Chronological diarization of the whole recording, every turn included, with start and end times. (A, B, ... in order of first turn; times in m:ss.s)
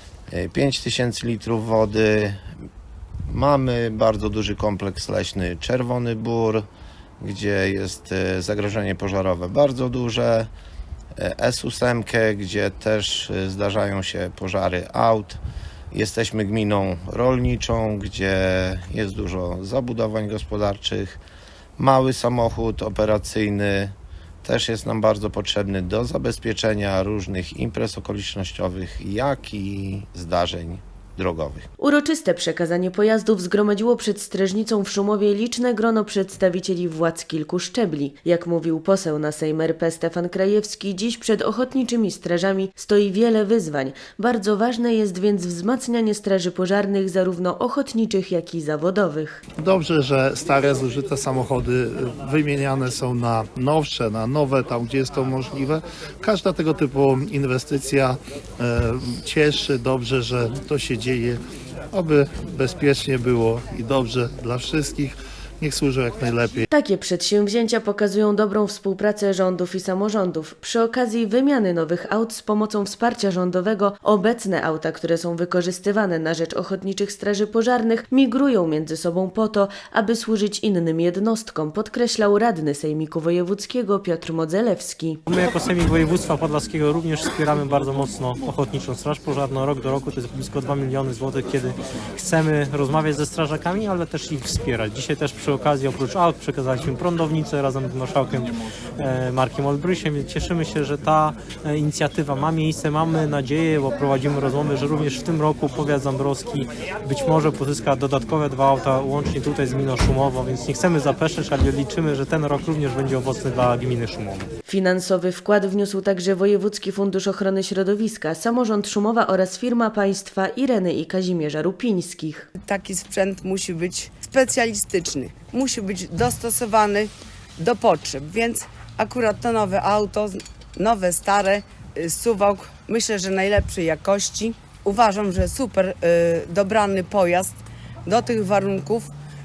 0:00.3-0:02.4 A
0:03.3-0:06.6 A
0:07.2-0:10.5 A
0:11.2-0:15.4 A
0:15.9-0:21.2 A
0:21.8-0:31.7 A
0:31.8-0:49.4 B
0:49.6-1:01.4 C
1:01.9-1:06.7 C
1:06.7-1:25.2 B
1:25.3-1:54.5 D
1:54.7-2:02.5 B
2:02.6-2:19.1 E